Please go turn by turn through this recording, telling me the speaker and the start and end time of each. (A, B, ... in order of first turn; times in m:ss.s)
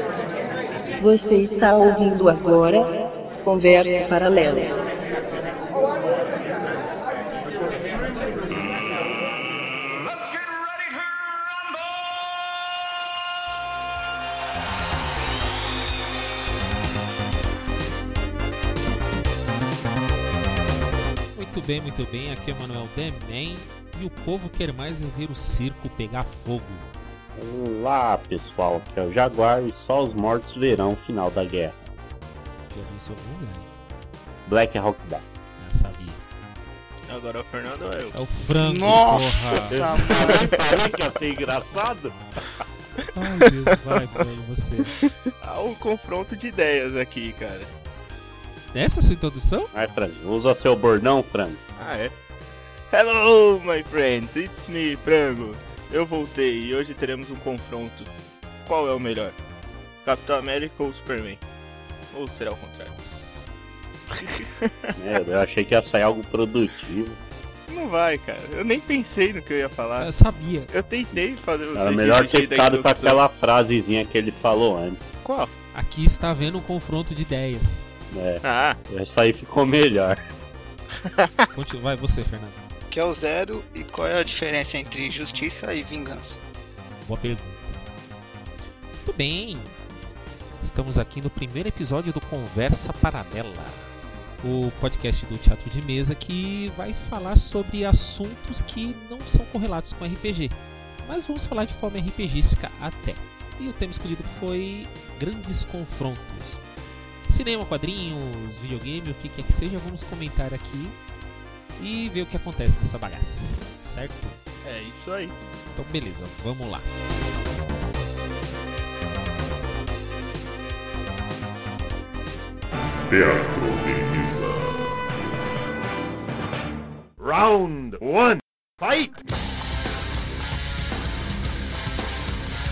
0:01.0-0:04.8 A
0:21.3-0:26.9 B
0:27.4-0:32.0 C
0:32.7-0:33.7 B
0:34.5-0:35.2 C
0:35.6-0:36.2 B
0:37.1-0:38.2 D
0:38.1-0:40.3 B
0:38.6-0:40.5 E
0:39.7-0:42.2 C
0:43.1-0:45.0 B
0:45.0-0:47.7 D
0:48.7-0:49.7 B
0:49.7-0:51.6 C
0:51.8-0:52.1 D
0:52.9-0:58.1 D
0:58.7-0:59.4 D
1:00.0-1:01.4 D
1:02.1-1:03.0 D
1:03.0-1:03.5 B
1:04.1-1:04.9 D
1:05.0-1:07.2 C
1:07.7-1:10.1 D
1:10.0-1:10.7 B
1:10.7-1:13.2 D
1:11.7-1:15.1 C
1:15.2-1:15.5 D
1:15.7-1:17.8 B
1:18.1-1:20.2 C
1:18.4-1:18.8 D
1:21.0-1:21.5 D
1:21.5-1:22.6 B
1:22.9-1:26.4 E
1:27.0-1:27.9 B
1:29.0-1:29.8 B
1:30.6-1:33.9 B
1:34.4-1:46.6 B
1:47.3-1:51.0 B
1:51.8-1:54.4 B
1:54.6-1:55.4 D
1:55.8-1:56.9 B
2:03.1-2:05.0 F
2:07.2-2:09.2 G